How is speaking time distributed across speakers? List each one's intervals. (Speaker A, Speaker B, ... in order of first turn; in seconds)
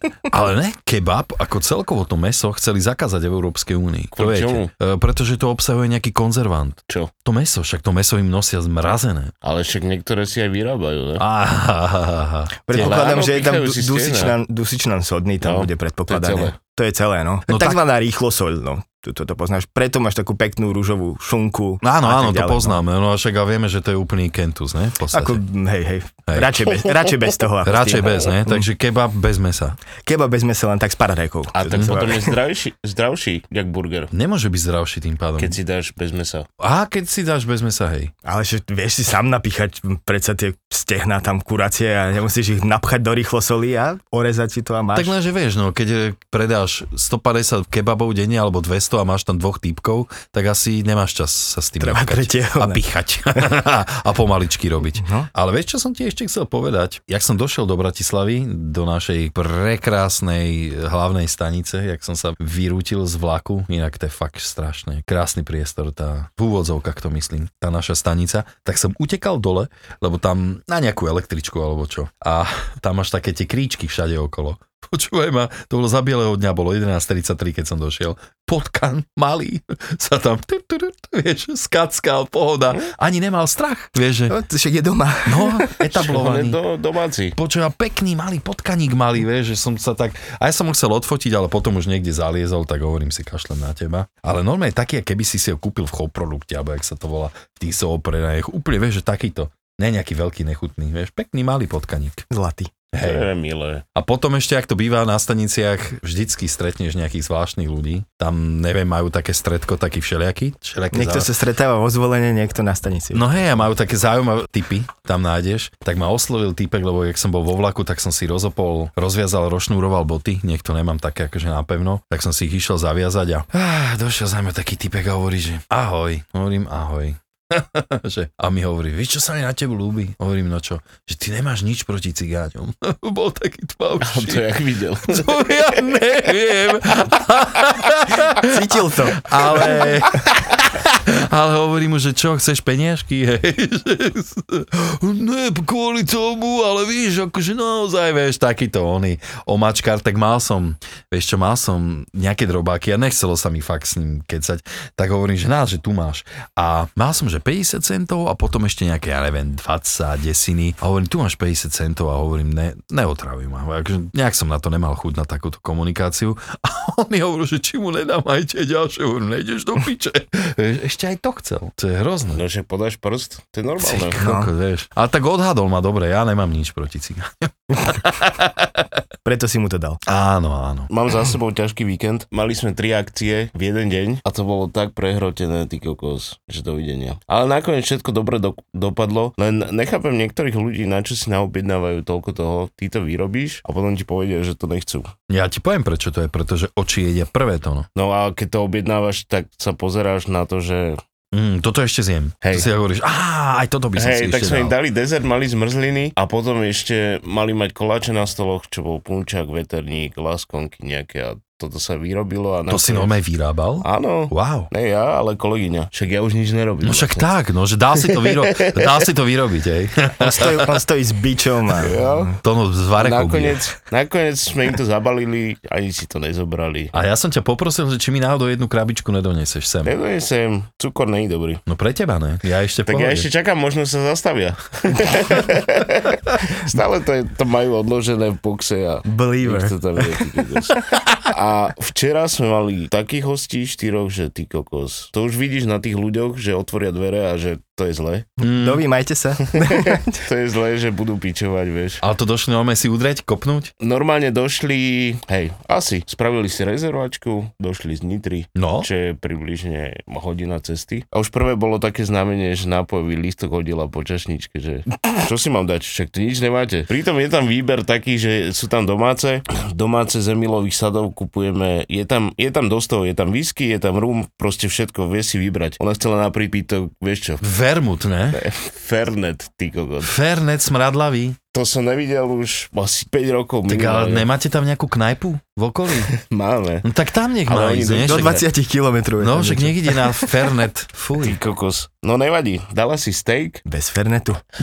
Speaker A: 0.3-9.3, 11.2-13.0, 17.5-17.8, 21.8-25.4, 26.3-26.6, 27.6-29.8, 31.7-32.0, 34.1-35.6, 36.6-38.1, 44.9-84.3, 85.2-86.6, 87.3-102.3, 102.9-103.3, 103.9-111.3, 113.1-134.5, 135.0-172.4, 173.8-179.0, 180.1-180.9, 195.3-197.9, 201.3-204.8, 212.7-214.7, 216.8-220.7, 222.4-223.6, 226.9-229.9, 231.7-233.3, 248.4-248.8, 252.0-253.7, 258.6-258.9, 277.4-278.4, 280.0-281.4, 283.7-286.1, 286.8-288.4, 289.2-291.4
Speaker B: 4.1-4.7, 9.4-11.2, 12.8-14.3, 15.4-16.5, 31.5-34.1, 35.4-36.5, 85.9-87.3, 103.0-103.8, 134.0-135.4, 172.3-174.2, 180.9-195.1, 197.9-201.0, 202.4-202.7, 203.9-213.1, 213.8-217.2, 218.1-218.9, 221.8-222.3, 223.0-226.9, 229.8-231.6, 232.9-248.2, 249.6-252.0, 253.8-277.4, 278.3-280.1, 281.5-284.3, 286.1-286.9, 287.4-288.4, 291.2-293.6
Speaker C: 12.7-22.8, 25.1-28.7, 30.1-32.3, 38.2-45.1, 51.8-52.8, 55.0-55.3, 84.3-85.8, 102.3-102.7, 110.9-113.7, 138.4-140.0, 174.1-174.5, 179.2-180.0, 220.2-222.3, 239.1-240.2, 248.4-250.2, 288.0-290.0, 293.6-294.4